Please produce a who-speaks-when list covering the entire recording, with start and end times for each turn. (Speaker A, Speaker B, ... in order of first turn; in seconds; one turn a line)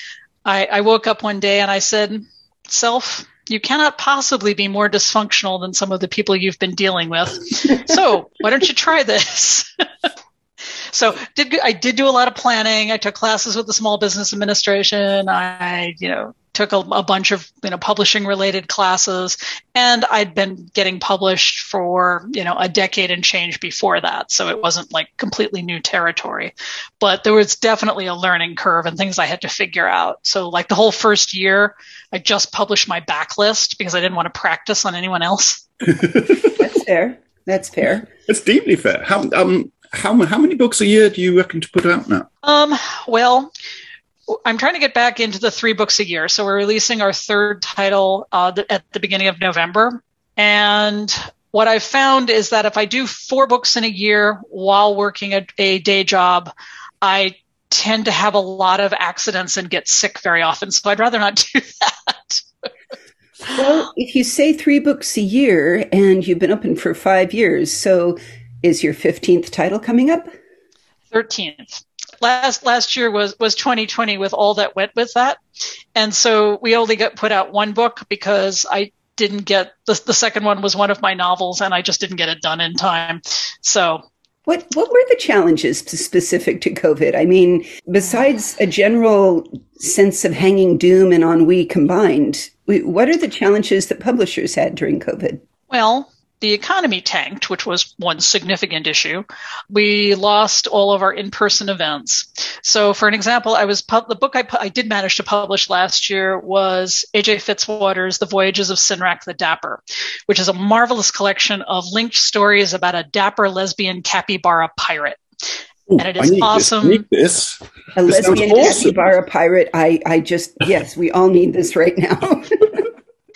Speaker A: 0.5-9.7
Speaker A: 10.9-35.6
Speaker B: 35.9-36.6
Speaker C: 36.4-38.1
Speaker B: 38.3-42.3
Speaker A: 42.4-43.5
Speaker A: 44.5-62.5
Speaker C: 63.5-70.3
Speaker A: 71.1-75.4
Speaker A: 76.0-84.0
Speaker C: 84.5-95.4
Speaker A: 95.7-115.2
Speaker B: 115.9-119.0
Speaker A: 116.0-117.0
Speaker C: 118.0-122.9